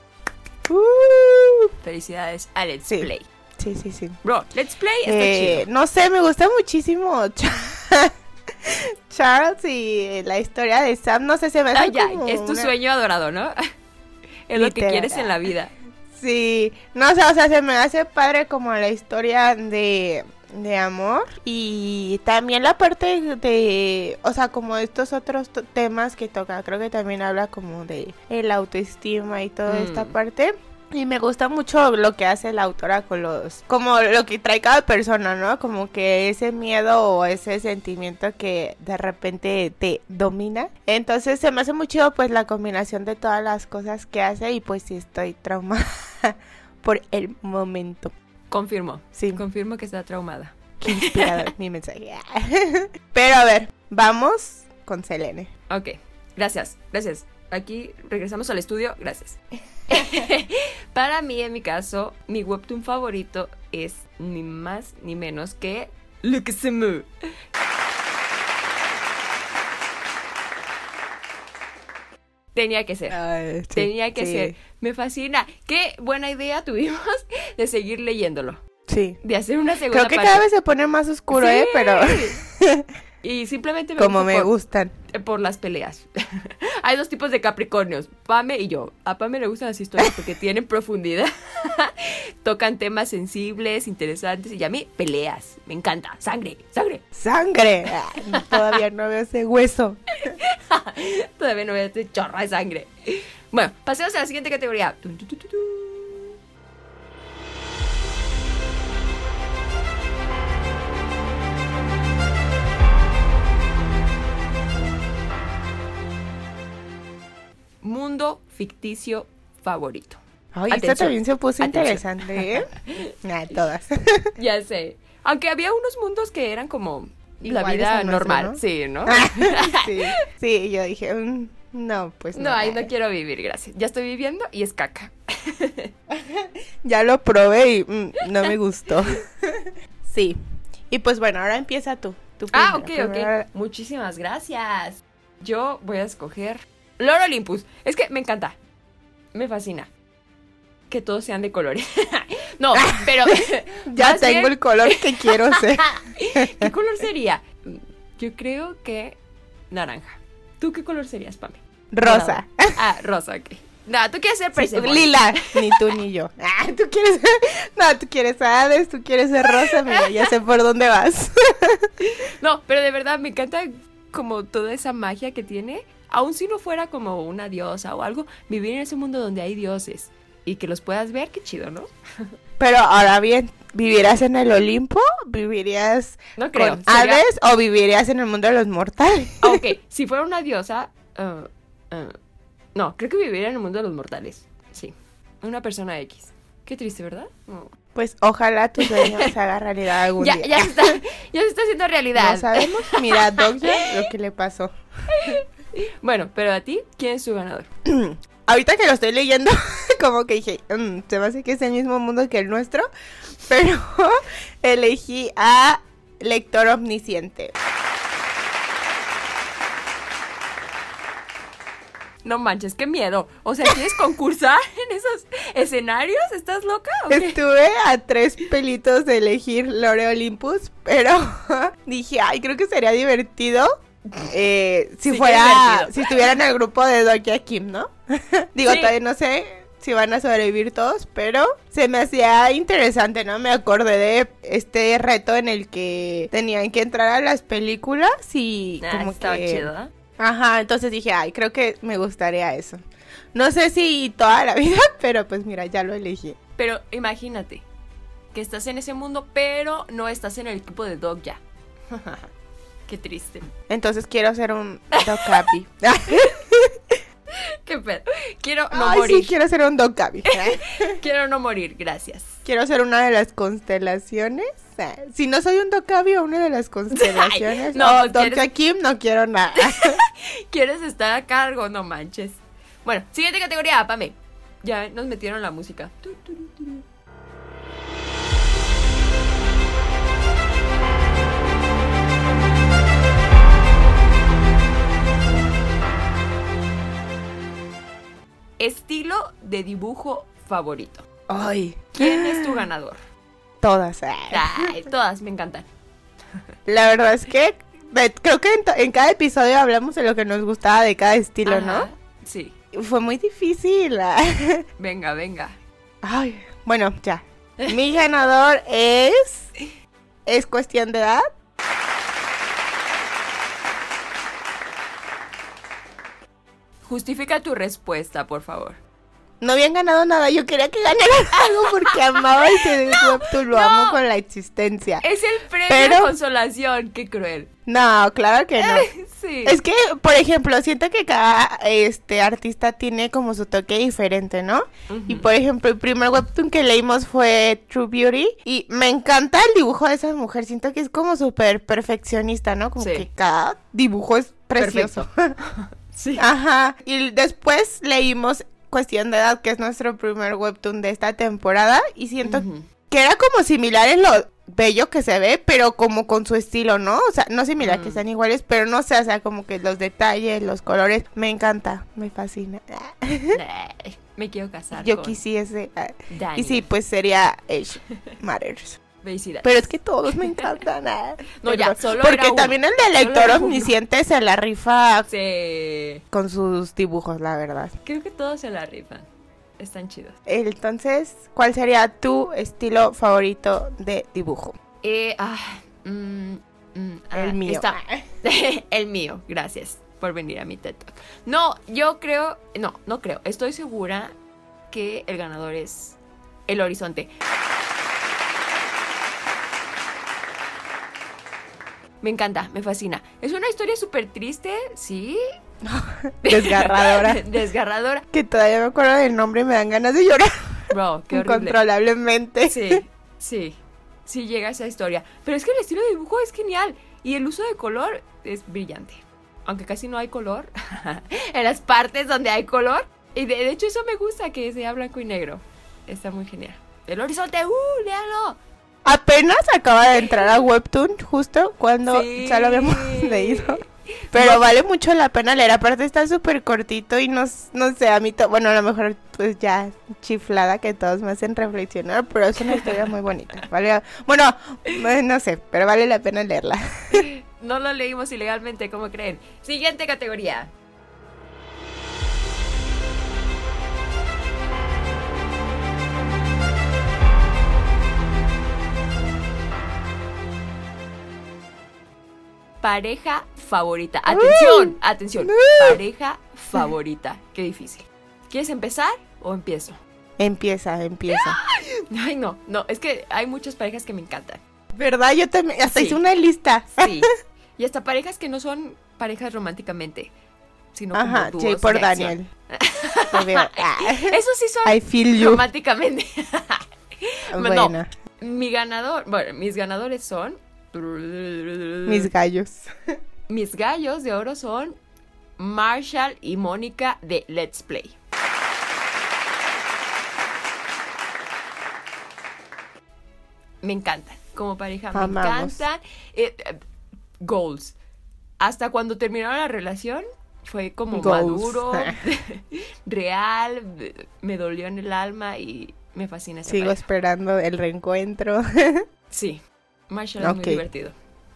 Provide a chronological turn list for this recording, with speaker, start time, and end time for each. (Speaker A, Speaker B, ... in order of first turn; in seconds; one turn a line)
Speaker A: 0.7-1.7
Speaker B: 1.8-3.3
Speaker A: 2.9-4.2
Speaker B: 4.2-5.7
Speaker A: 5.1-8.1
Speaker A: 8.6-12.7
Speaker B: 11.7-13.6
Speaker B: 14.5-15.7
Speaker A: 14.6-15.3
Speaker A: 16.1-48.1
Speaker B: 29.7-30.1
Speaker B: 48.5-51.4
Speaker A: 49.2-49.4
Speaker A: 50.8-55.5
Speaker B: 55.7-59.4
Speaker B: 59.9-67.1
Speaker B: 72.5-73.2
Speaker A: 73.1-74.5
Speaker B: 73.8-78.6
Speaker A: 78.9-79.2
Speaker B: 79.2-80.4
Speaker A: 79.9-82.9
Speaker B: 81.3-82.4
Speaker B: 83.2-84.5
Speaker A: 84.0-84.9
Speaker B: 85.1-97.0
Speaker A: 97.2-100.3
Speaker B: 98.3-98.8
Speaker B: 100.2-106.3
Speaker B: 117.8-123.6
Speaker A: 120.5-122.7
Speaker A: 123.2-124.3
Speaker B: 124.4-130.1
Speaker A: 127.4-132.9
Speaker B: 132.3-135.9
Speaker A: 136.1-140.4
Speaker A: 140.9-143.5
Speaker B: 142.5-148.6
Speaker B: 149.3-149.9
Speaker B: 150.9-159.2
Speaker A: 152.8-153.3
Speaker A: 153.9-156.7
Speaker B: 159.7-165.9
Speaker A: 161.9-162.7
Speaker A: 164.6-171.9
Speaker B: 169.7-170.2
Speaker B: 172.0-182.3
Speaker A: 182.6-189.6
Speaker B: 186.4-187.2
Speaker B: 189.4-192.1
Speaker B: 192.8-197.7
Speaker A: 197.9-200.9
Speaker B: 198.8-199.3
Speaker B: 200.2-203.9
Speaker A: 202.2-204.7
Speaker B: 205.1-207.7
Speaker A: 207.9-212.9
Speaker A: 213.4-217.5
Speaker B: 222.2-227.4
Speaker A: 227.1-233.7
Speaker A: 234.3-252.8
Speaker B: 235.1-236.2
Speaker B: 238.7-238.9
Speaker B: 248.8-249.9
Speaker A: 253.3-256.4
Speaker B: 256.6-257.6
Speaker B: 258.3-261.4
Speaker B: 261.9-262.2
Speaker B: 262.9-263.5
Speaker A: 263.7-267.0
Speaker B: 264.9-265.5
Speaker B: 267.3-269.3
Speaker A: 268.7-271.0
Speaker B: 270.2-272.4
Speaker A: 272.4-280.0
Speaker B: 276.9-278.4
Speaker B: 279.6-286.8
Speaker B: 298.6-301.1
Speaker A: 301.3-302.7
Speaker B: 302.0-303.0
Speaker A: 303.6-304.8
Speaker B: 304.3-305.7
Speaker A: 306.7-311.9
Speaker B: 311.5-312.5
Speaker A: 312.7-314.6
Speaker B: 314.8-315.6
Speaker A: 316.0-319.5
Speaker A: 320.2-321.2
Speaker B: 326.9-328.8
Speaker A: 329.4-335.0
Speaker B: 332.6-334.0
Speaker B: 335.0-337.5
Speaker A: 335.7-336.1
Speaker A: 337.7-338.9
Speaker B: 338.6-339.6
Speaker A: 339.4-355.3
Speaker B: 344.9-345.3
Speaker B: 352.8-353.1
Speaker B: 354.6-356.3
Speaker A: 356.2-373.4
Speaker B: 362.2-362.6
Speaker B: 367.6-368.0
Speaker B: 373.3-375.2
Speaker A: 374.7-378.8
Speaker B: 376.1-376.7
Speaker B: 379.0-380.4
Speaker A: 379.4-385.1
Speaker B: 381.4-383.7
Speaker B: 385.1-386.0
Speaker A: 386.1-387.7
Speaker B: 387.9-389.1
Speaker B: 389.6-390.1
Speaker A: 390.2-394.6
Speaker B: 394.8-404.1
Speaker A: 397.1-398.1
Speaker B: 404.7-406.0
Speaker B: 406.5-407.1
Speaker B: 412.0-415.2
Speaker A: 415.6-417.2
Speaker B: 416.2-418.1
Speaker A: 418.1-422.8
Speaker B: 420.7-421.6
Speaker B: 422.4-438.4
Speaker A: 438.9-443.6
Speaker B: 441.9-444.5
Speaker A: 444.1-457.1
Speaker B: 452.4-452.9
Speaker B: 456.9-460.5
Speaker B: 472.6-479.8
Speaker A: 474.1-475.8
Speaker A: 480.2-481.4
Speaker B: 481.1-484.4
Speaker A: 484.8-486.9
Speaker B: 485.8-486.0
Speaker B: 486.8-490.1
Speaker B: 490.8-502.1
Speaker A: 490.9-492.2
Speaker A: 493.1-495.4
Speaker A: 497.3-497.9
Speaker A: 501.9-502.7
Speaker B: 503.3-504.8
Speaker B: 505.4-507.9
Speaker B: 513.6-516.6
Speaker A: 514.9-515.6
Speaker B: 517.2-517.8
Speaker B: 518.4-526.8
Speaker A: 520.9-522.0
Speaker A: 526.5-528.8
Speaker B: 529.1-531.0
Speaker A: 530.2-530.6